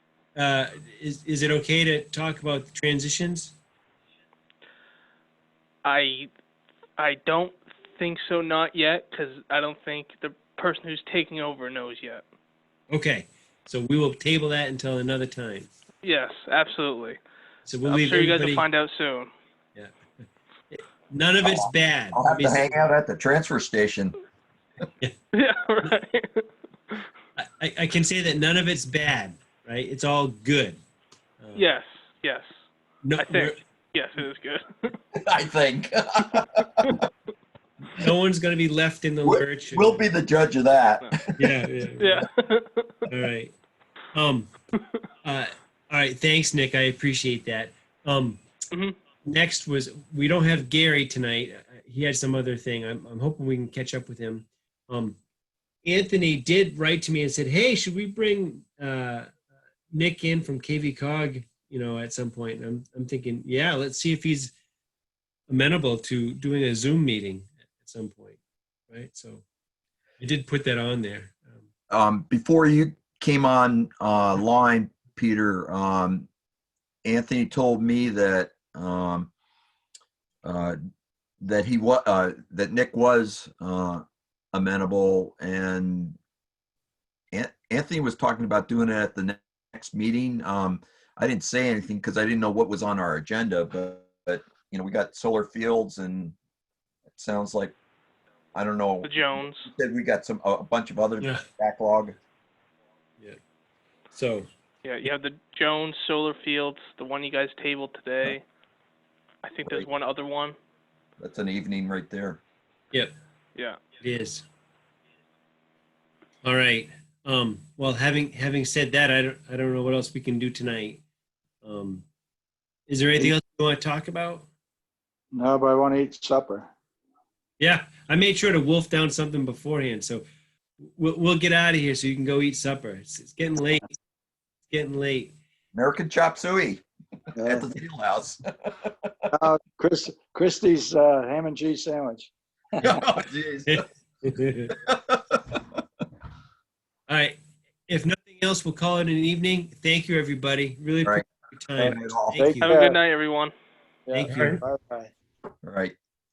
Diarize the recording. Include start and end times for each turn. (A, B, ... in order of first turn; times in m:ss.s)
0:00.4-0:03.5 A
0:05.8-0:06.3 B
0:07.0-0:12.2 B
0:12.9-0:15.7 A
0:16.0-0:17.2 B
0:17.6-0:18.6 A
0:17.8-0:19.3 B
0:20.7-0:22.9 A
0:21.4-0:24.2 C
0:25.3-0:27.0 B
0:27.4-0:30.8 A
0:31.4-0:31.7 A
0:31.6-0:32.5 B
0:33.0-0:33.6 A
0:33.2-0:34.9 B
0:35.1-0:37.0 C
0:37.9-0:40.0 A
0:39.2-0:41.4 C
0:40.8-0:41.1 B
0:41.4-0:42.2 A
0:42.0-0:43.0 B
0:43.1-0:43.5 A
0:44.1-0:44.5 A
0:45.2-0:48.4 A
0:49.2-0:55.2 A
0:55.8-0:59.3 A
0:59.9-1:04.5 A
1:05.5-1:08.4 A
1:08.9-1:09.4 A
1:10.2-1:11.7 A
1:11.9-1:16.3 C
1:17.0-1:19.3 C
1:20.4-1:20.8 C
1:21.4-1:26.2 C
1:27.3-1:36.4 C
1:37.1-1:37.8 C
1:38.5-1:42.2 C
1:39.0-1:39.7 B
1:44.1-1:44.5 A
1:44.8-1:48.4 B
1:49.4-1:50.6 B
1:51.2-1:52.4 C
1:53.6-1:53.8 B
1:54.0-1:54.4 A
1:56.4-2:01.0 A
2:01.6-2:02.0 A
2:02.9-2:04.5 A
2:05.3-2:06.7 D
2:07.6-2:10.2 A
2:10.8-2:14.0 A
2:14.7-2:15.3 A
2:15.7-2:16.8 C
2:17.3-2:17.7 D
2:17.4-2:19.3 C
2:19.3-2:23.0 D
2:22.8-2:23.8 C
2:23.7-2:24.8 A
2:24.8-2:25.6 C
2:27.1-2:27.4 A
2:27.9-2:32.7 A
2:31.8-2:32.5 C
2:31.8-2:33.0 D
2:32.6-2:33.5 B
2:34.1-2:35.1 D
2:34.1-2:34.6 A
2:35.6-2:36.0 C